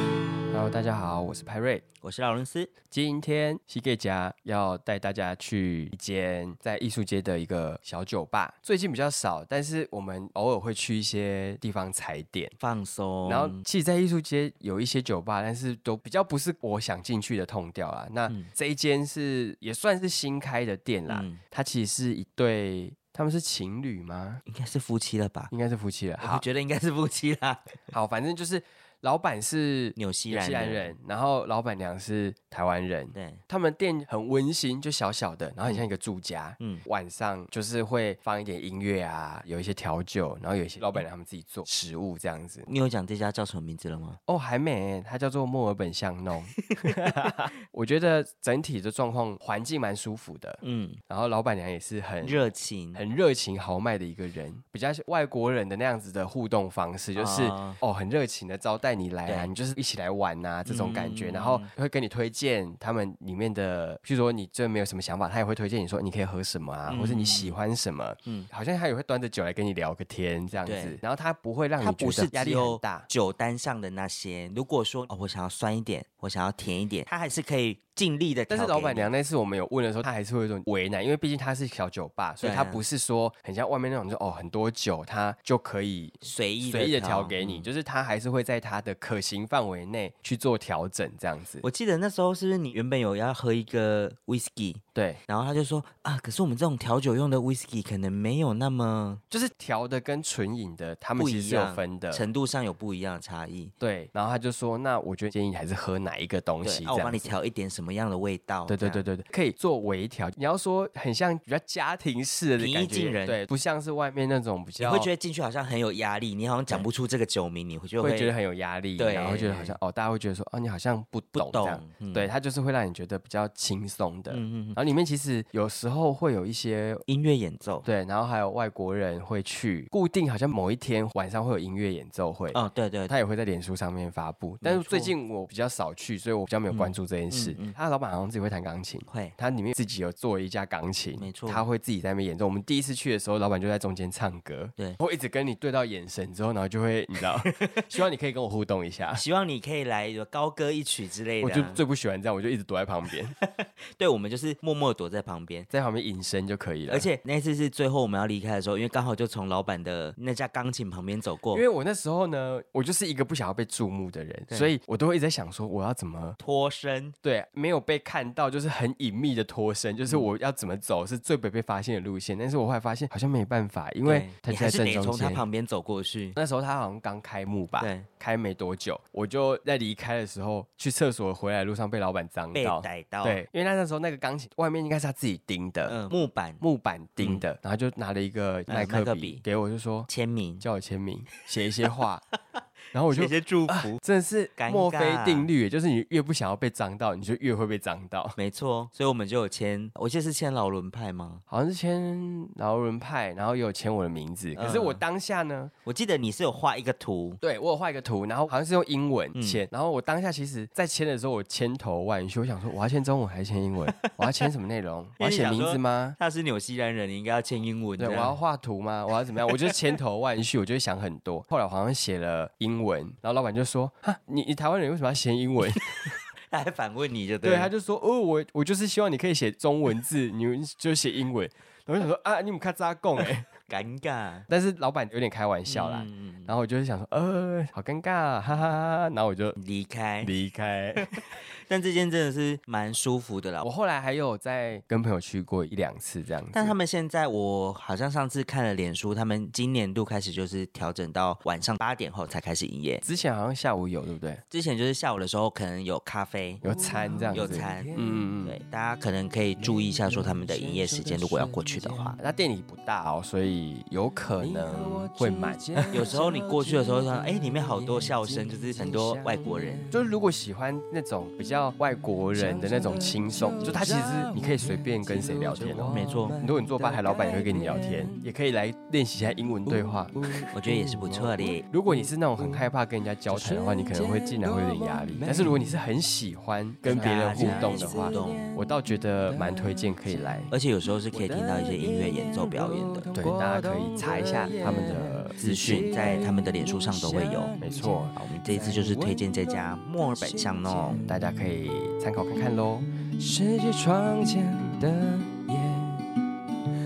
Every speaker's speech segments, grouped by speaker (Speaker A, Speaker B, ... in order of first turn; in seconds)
Speaker A: 0.5-1.8, 2.9-12.5, 13.2-24.4, 25.5-26.5, 27.9-42.7, 44.3-73.1, 78.5-91.6, 94.9-95.2, 99.3-102.3, 103.8-107.3, 108.7-115.1, 118.0-127.0, 127.8-149.2, 151.4-153.3, 155.7-157.1, 161.5-166.4, 167.2-175.4, 176.3-186.0, 186.6-190.1, 190.6-192.2, 192.9-198.4, 201.5-205.7, 207.4-216.2, 218.0-226.1, 227.4-233.5, 234.5-239.6, 240.2-241.2, 243.6-246.8, 253.0-254.4, 256.6-258.6, 262.2-266.1, 269.9-280.2, 281.6-290.5, 293.1-295.4, 297.6-298.1, 301.1-302.9
Speaker B: 2.0-2.7, 12.6-13.6, 21.1-21.4, 24.4-25.5, 26.2-27.8, 29.9-30.9, 33.1-33.4, 40.8-41.0, 42.6-44.2, 46.8-47.3, 50.6-51.0, 52.2-53.0, 57.1-57.8, 59.2-59.5, 60.6-61.7, 66.9-67.5, 70.6-71.0, 71.8-79.1, 82.4-82.8, 86.2-87.7, 91.6-99.2, 101.2-103.7, 106.6-109.0, 112.6-113.4, 114.8-118.3, 119.0-119.8, 121.3-122.3, 124.3-124.8, 127.1-127.8, 132.5-133.1, 134.6-135.2, 136.7-137.8, 139.1-139.3, 141.2-141.7, 149.1-151.8, 153.3-155.7, 156.9-161.6, 164.5-164.7, 166.4-167.1, 174.0-176.4, 177.8-178.1, 182.5-183.4, 185.8-186.6, 187.2-187.4, 188.7-189.4, 190.1-190.7, 193.1-194.0, 194.6-195.5, 198.3-201.4, 204.5-205.0, 205.8-207.4, 209.3-209.6, 215.2-218.4, 219.5-219.7, 226.4-227.7, 233.4-234.5, 235.6-236.5, 239.6-240.3, 240.9-243.7, 246.5-253.0, 254.5-256.6, 257.3-257.9, 258.4-262.2, 265.9-269.8, 275.8-276.4, 280.5-281.6, 286.9-288.5, 290.5-293.1, 295.4-297.5, 298.1-301.0
Speaker C: 256.6-258.3, 259.6-262.2, 264.4-270.1, 272.3-278.3, 279.6-282.7, 283.3-285.7, 286.8-288.6, 289.2-290.5, 291.1-301.2, 303.1-306.0